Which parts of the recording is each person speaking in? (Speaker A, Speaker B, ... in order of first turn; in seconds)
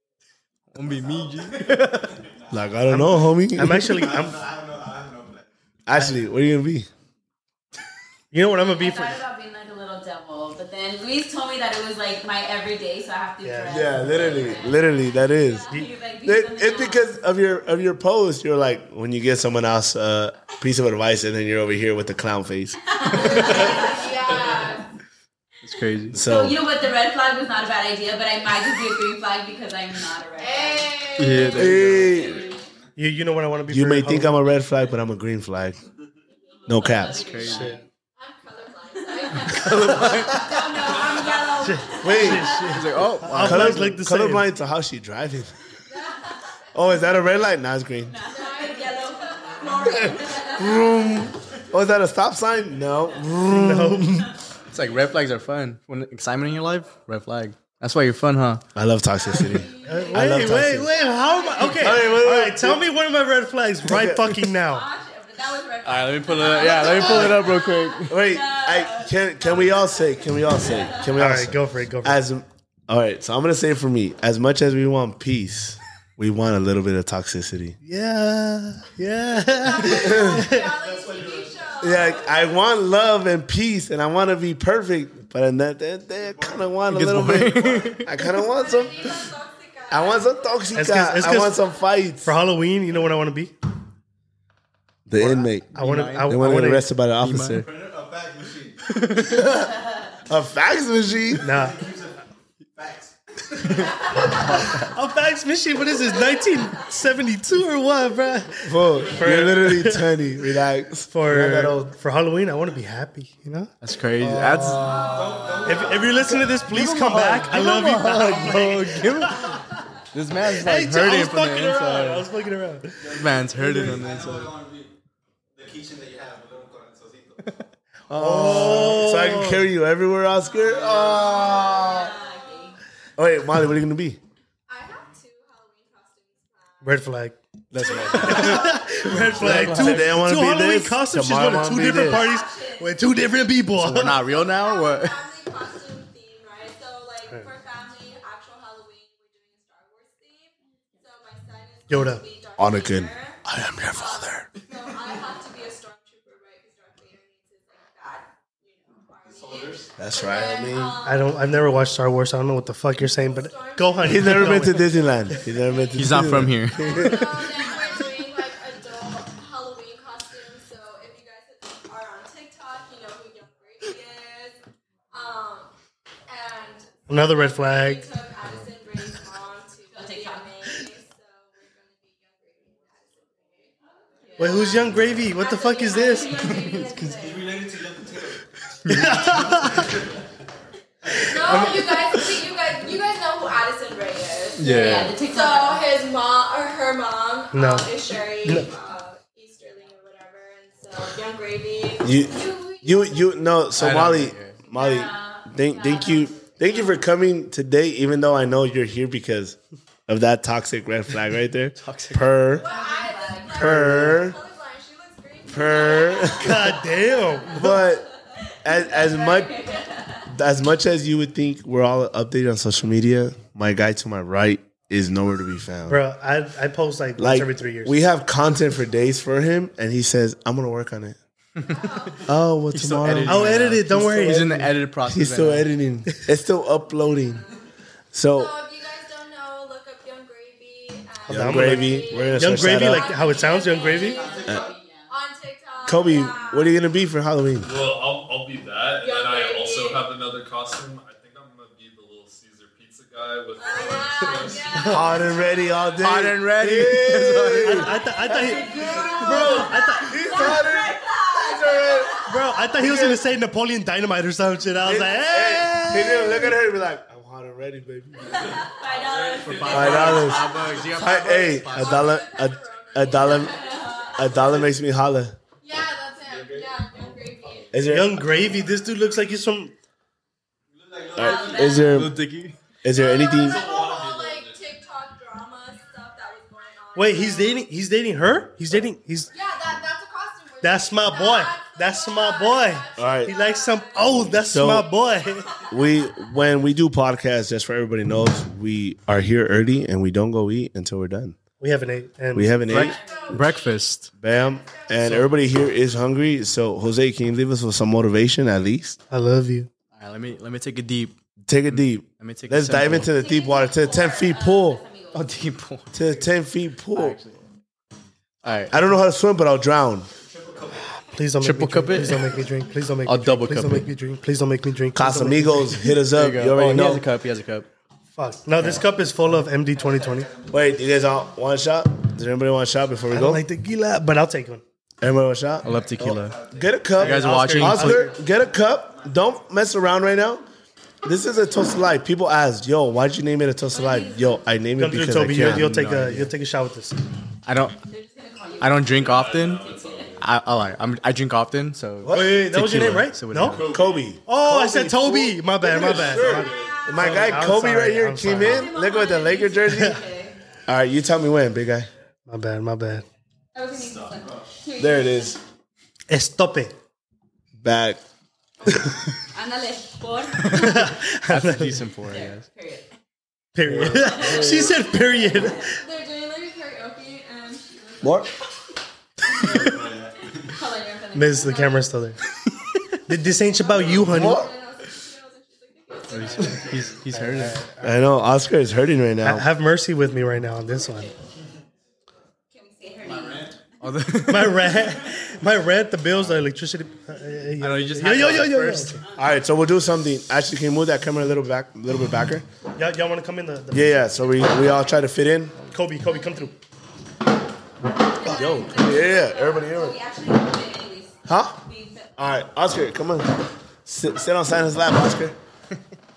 Speaker A: 0.7-2.2, 23.1-23.6, 25.6-26.2, 31.2-32.2, 37.1-37.8, 39.4-40.9, 42.7-43.9, 54.7-58.6, 59.4-59.6, 65.8-68.2, 86.9-88.2, 95.7-96.4, 97.2-97.6, 98.8-99.4, 103.6-104.0, 104.5-104.9, 113.8-115.1, 116.7-122.3, 123.0-124.6, 137.7-140.1, 143.8-145.2, 165.9-167.5, 188.8-189.7, 194.6-195.1, 203.8-204.6, 211.8-212.3, 231.6-231.8, 232.7-235.7, 256.0-257.9, 269.4-272.2, 281.8-282.5, 302.7-304.1, 309.9-311.2, 311.7-313.1, 315.1-316.2, 316.9-317.4, 318.4-318.8, 321.4-322.3, 323.0-323.9, 326.1-327.7, 335.6-338.0, 345.4-346.3, 347.4-347.8, 348.6-349.7, 350.2-353.8, 371.3-372.4, 386.1-387.6, 393.8-394.8, 397.6-399.0
Speaker B: 2.5-4.1, 5.9-6.9, 13.7-15.7, 16.2-22.7, 26.1-26.6, 31.5-32.5, 33.7-35.8, 36.7-37.4, 42.0-42.6, 43.3-45.6, 46.7-48.2, 50.4-54.2, 58.7-60.9, 61.8-62.8, 63.9-64.5, 66.8-77.8, 79.8-80.5, 81.8-89.3, 89.9-92.3, 95.1-97.7, 99.1-101.5, 108.6-111.8, 114.6-115.6, 128.1-132.1, 133.2-134.2, 139.3-142.2, 152.6-154.5, 159.9-161.0, 164.0-167.4, 202.0-212.7, 213.5-214.4, 215.5-216.7, 217.5-218.1, 218.6-219.6, 220.3-226.0, 227.2-231.2, 232.2-233.5, 235.1-237.4, 238.1-238.5, 241.3-243.1, 245.8-247.7, 254.9-262.2, 262.8-263.2, 264.8-268.6, 269.7-275.4, 277.7-278.2, 281.1-282.2, 282.8-283.8, 293.0-293.3, 294.3-294.9, 295.7-301.4, 302.3-303.0, 304.2-309.0, 311.5-314.8, 315.9-317.2, 318.7-320.1, 324.9-327.0, 330.4-333.4, 335.0-340.4, 341.0-345.7, 352.0-352.9, 353.7-360.0, 360.7-361.9, 364.8-365.4, 367.6-368.0, 373.6-374.7, 378.0-378.3, 384.1-384.5, 387.8-389.5, 399.1-402.4, 403.7-405.6, 408.2-410.0, 411.2-411.6, 412.2-415.4
Speaker C: 2.9-4.5, 8.3-9.2, 13.4-14.3, 33.0-34.4, 37.4-37.8, 41.6-44.5, 53.5-54.3, 59.8-64.9, 71.2-72.2, 77.8-80.7, 90.7-91.6, 92.2-93.5, 95.2-96.9, 101.4-101.9, 104.2-110.2, 111.1-115.0, 115.6-119.8, 120.5-124.0, 128.1-129.7, 136.8-137.4, 138.1-144.2, 151.9-152.2, 161.0-164.8, 177.1-178.1, 184.4-186.6, 188.9-190.0, 191.1-192.0, 197.5-198.7, 213.6-214.2, 216.3-217.6, 225.9-227.9, 233.2-234.7, 241.3-244.4, 257.6-260.3, 262.2-266.4, 277.8-279.7, 286.9-289.3, 290.6-295.6, 301.6-302.7, 309.1-309.7, 321.1-325.9, 328.1-330.3, 333.1-334.6, 337.0-338.2, 344.8-347.0, 352.1-353.6, 354.2-358.7, 359.7-360.0, 362.3-363.0, 366.1-366.7, 370.6-371.8, 373.5-375.8, 381.1-382.2, 383.1-384.4, 387.1-388.0, 389.2-391.1, 394.3-399.0, 402.8-404.4, 405.7-406.6
Speaker D: 4.5-5.4, 81.1-81.4, 97.8-98.8, 102.8-103.0, 115.0-116.1, 124.2-124.9, 125.6-127.4, 159.4-159.8, 187.4-188.3, 280.8-281.3, 320.4-320.8
Speaker E: 8.5-17.1, 22.8-24.7, 26.1-31.4, 32.2-32.5, 36.5-37.8, 39.1-42.8, 48.1-51.0, 59.7-60.1, 61.0-61.8, 64.7-71.1, 130.6-132.8, 142.1-142.9, 167.0-168.2, 179.9-180.5, 184.2-184.9, 185.8-186.8, 194.6-195.8, 204.7-206.3, 212.6-213.8, 218.7-220.3, 243.2-245.1, 253.7-255.1, 258.4-262.3, 268.2-270.3, 273.1-274.6, 281.1-282.0, 302.7-303.8, 313.0-315.2, 343.7-344.4, 347.9-348.9, 349.7-350.1, 356.5-357.0, 358.4-360.4, 363.5-365.4, 368.6-371.0, 372.1-372.9, 373.9-374.5, 379.4-381.8, 392.5-393.6, 408.2-412.1
Speaker F: 23.1-24.8, 30.4-32.6, 38.1-42.3, 45.9-46.3, 48.3-50.9, 59.6-60.4, 61.0-61.8, 79.6-82.4, 88.2-92.0, 131.4-132.7, 134.7-137.0, 137.8-139.0, 142.1-142.7, 144.1-161.6, 163.2-166.2, 166.8-174.6, 175.1-175.7, 176.3-183.7, 184.4-184.7, 185.3-187.9, 191.1-203.2, 212.5-217.9, 231.7-232.2, 237.2-237.6, 238.3-246.9, 249.0-250.0, 253.6-255.5, 258.8-259.6, 260.3-260.9, 271.7-274.7, 275.6-277.8, 282.9-287.6, 289.3-296.2, 302.9-303.6, 304.5-305.2, 356.4-356.7, 375.6-377.9, 383.6-386.9, 408.4-409.5
Speaker G: 247.6-255.0, 283.4-284.6, 348.9-350.3, 353.5-354.1, 355.9-356.5